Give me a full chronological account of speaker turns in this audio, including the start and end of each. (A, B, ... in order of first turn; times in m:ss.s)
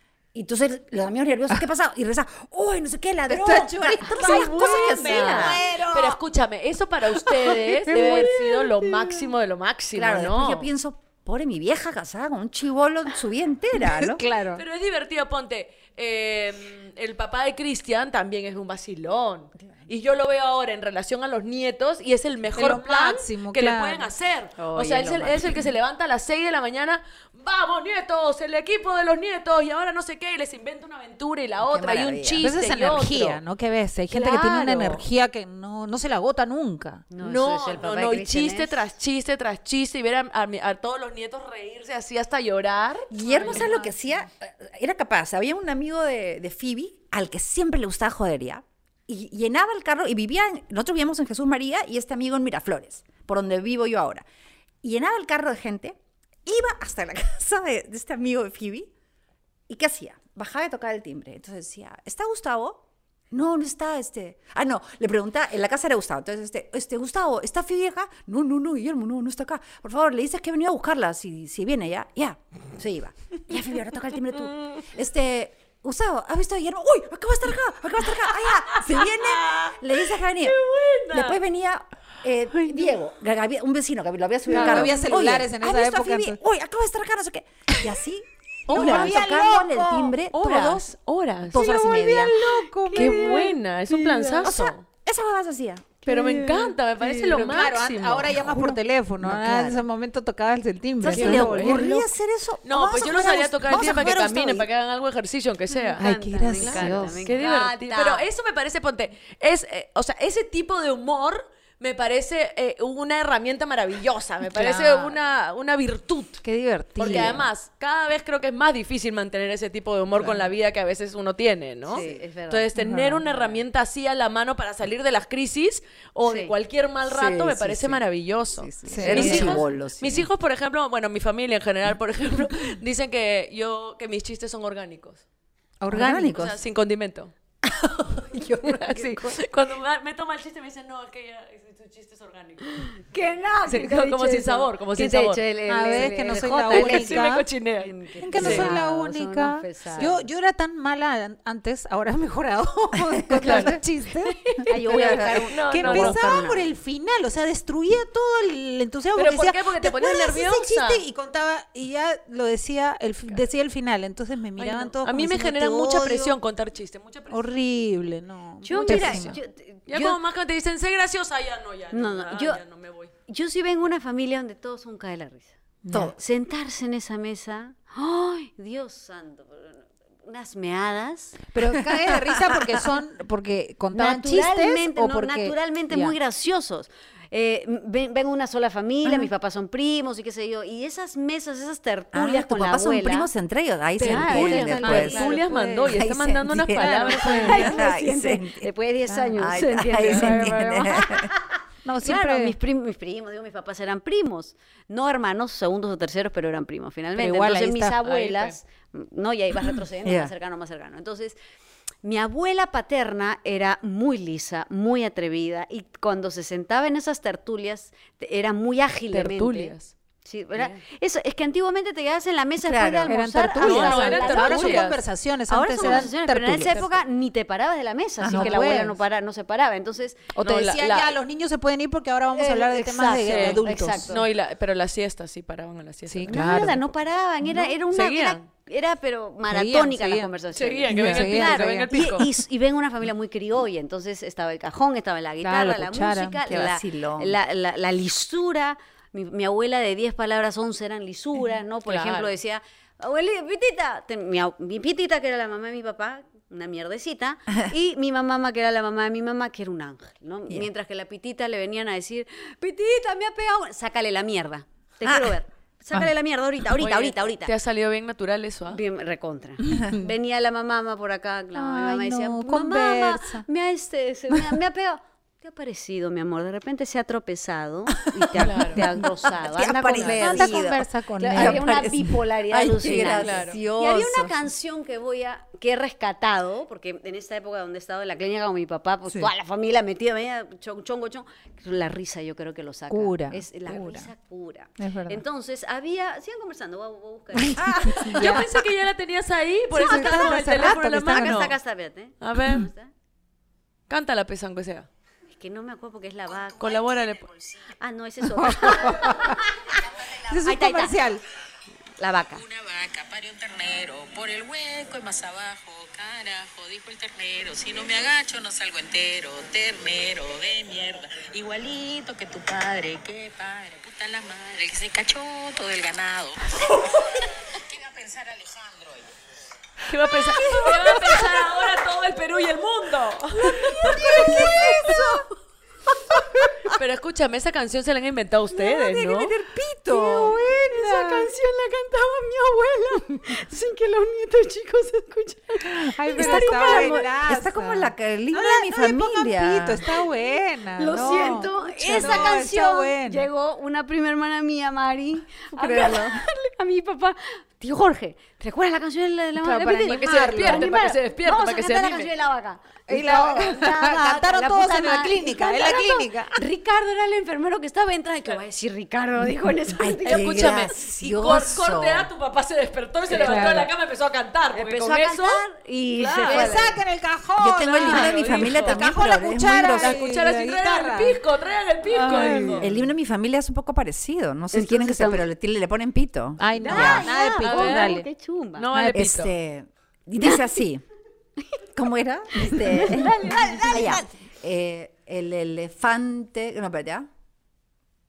0:00.3-0:05.6 A
0:03.3-0:06.2 B
0:04.1-0:10.7 C
0:07.5-0:08.4 B
0:07.9-0:08.3 A
0:09.9-0:14.2 A
0:13.9-0:14.6 B
0:14.5-0:33.4 C
0:22.6-0:24.1 B
0:24.6-0:25.5 A
0:31.6-0:32.5 A
0:32.4-0:37.1 B
0:34.1-0:35.0 C
0:37.1-0:38.8 D
0:37.2-0:43.8 C
0:43.1-0:54.2 A
0:43.3-0:43.9 B
0:54.8-0:58.9 A
0:59.7-1:20.6 A
1:18.4-1:21.4 C
1:21.1-1:31.0 A
1:22.5-1:23.0 C
1:24.5-1:26.4 B
1:24.5-1:25.0 C
1:28.7-1:29.2 C
1:28.7-1:30.2 B
1:30.3-1:31.8 C
1:31.5-1:32.4 A
1:31.6-1:34.5 B
1:32.9-1:34.8 C
1:32.9-1:33.2 D
1:34.4-1:36.0 A
1:36.1-1:38.6 C
1:37.3-1:42.1 B
1:38.3-1:39.8 A
1:41.0-1:44.7 A
1:41.1-1:41.9 C
1:42.6-1:46.0 C
1:43.7-1:44.1 B
1:45.7-1:48.3 D
1:46.0-1:47.3 B
1:46.6-1:56.4 C
1:54.5-1:55.2 B
1:56.4-1:57.5 B
1:57.0-2:15.2 C
1:57.0-1:57.4 A
2:01.9-2:02.7 D
2:01.9-2:02.2 A
2:02.8-2:03.2 B
2:06.2-2:06.5 D
2:07.0-2:08.0 A
2:08.6-2:10.3 A
2:08.9-2:09.6 B
2:09.1-2:09.5 D
2:15.8-2:16.4 B
2:15.9-2:16.6 A
2:16.2-2:17.3 C
2:17.6-2:19.3 A
2:18.6-2:23.0 C
2:22.9-2:30.3 D
2:23.7-2:25.4 C
2:25.7-2:27.5 B
2:26.4-2:28.7 C
2:28.2-2:46.4 B
2:33.0-2:33.8 A
2:33.4-2:36.4 C
2:34.7-2:36.7 D
2:34.8-2:35.5 A
2:39.2-2:41.0 C
2:44.6-2:47.4 C
2:47.3-2:49.4 B
2:48.6-2:50.2 D
2:48.9-2:49.3 A
2:48.9-2:49.2 C
2:49.9-2:53.1 C
2:51.9-2:52.6 D
2:53.3-3:01.4 D
2:55.8-2:56.1 B
3:01.5-3:06.2 B
3:01.9-3:02.7 A
3:03.9-3:13.3 D
3:12.1-3:18.7 A
3:14.0-3:15.3 D
3:14.0-3:17.7 C
3:14.0-3:16.1 B
3:16.6-3:17.8 B
3:17.2-3:21.5 D
3:19.1-3:19.4 B
3:19.4-3:21.3 A
3:20.0-3:21.1 B
3:21.8-3:22.6 B
3:22.0-3:31.4 D
3:27.2-3:28.0 B
3:28.0-3:28.6 C
3:30.0-3:30.3 A
3:32.0-3:45.0 D
3:39.1-3:39.9 C
3:40.5-3:40.8 C
3:42.6-3:43.2 A
3:43.1-3:47.0 B
3:43.6-3:45.0 C
3:45.5-3:50.3 D
3:48.2-3:48.6 A
3:48.2-3:49.0 B
3:50.4-3:54.2 B
3:50.4-3:51.1 C
3:52.3-3:54.3 D
3:53.2-3:56.8 C
3:56.1-3:56.9 B
3:56.3-4:27.5 D
3:57.9-3:58.4 C
3:59.5-4:00.3 B
4:00.5-4:02.3 C
4:00.9-4:02.2 B
4:05.4-4:06.4 B
4:06.5-4:07.4 A
4:11.9-4:12.3 C
4:25.0-4:25.4 A
4:26.8-4:28.8 C
4:28.7-4:40.7 D
4:31.6-4:33.4 B
4:38.4-4:38.8 C
4:38.4-4:44.4 A
4:40.0-4:41.8 B
4:41.2-4:58.0 D
4:43.1-4:43.6 C
4:52.9-4:54.1 B
4:54.8-4:55.2 B
4:57.4-4:58.5 B
4:57.6-4:58.4 A
4:58.0-5:01.6 C
4:59.7-5:01.5 B
4:59.8-5:02.9 D
5:02.2-5:02.7 C
5:03.9-5:04.9 C
5:05.3-5:06.9 D
5:06.6-5:07.3 C
5:07.1-5:07.5 E
5:07.8-5:09.5 D
5:08.3-5:09.4 B
5:10.2-5:11.2 B
5:10.4-5:11.0 D
5:12.0-5:12.4 D
5:12.3-5:29.1 E
5:29.9-5:35.0 C
5:30.4-5:31.3 B
5:33.8-5:35.2 B
5:33.8-5:35.2 A
5:36.7-5:39.4 C
5:39.0-5:40.4 A
5:39.5-5:41.3 B
5:39.9-5:47.1 D
5:45.6-5:53.3 B
5:46.1-5:49.8 A
5:50.8-6:10.7 D
5:55.6-5:56.2 A
5:59.4-6:00.7 B
5:59.9-6:02.1 C
6:02.9-6:06.4 B
6:09.8-6:12.1 A
6:10.0-6:15.4 C
6:13.1-6:13.7 B
6:14.5-6:16.8 D
6:16.0-6:16.7 C
6:16.2-6:21.2 B
6:17.4-6:20.0 A
6:17.6-6:18.9 C
6:19.7-6:22.7 C
6:22.0-6:22.7 B
6:22.0-6:22.6 D
6:22.6-6:27.1 A
6:24.5-6:25.3 D
6:26.4-6:28.1 B
6:26.6-6:28.7 D
6:27.4-6:28.0 C
6:28.6-6:29.3 C
6:28.7-6:29.1 B
6:28.9-6:30.8 A
6:31.7-6:37.1 A
6:32.4-6:34.1 D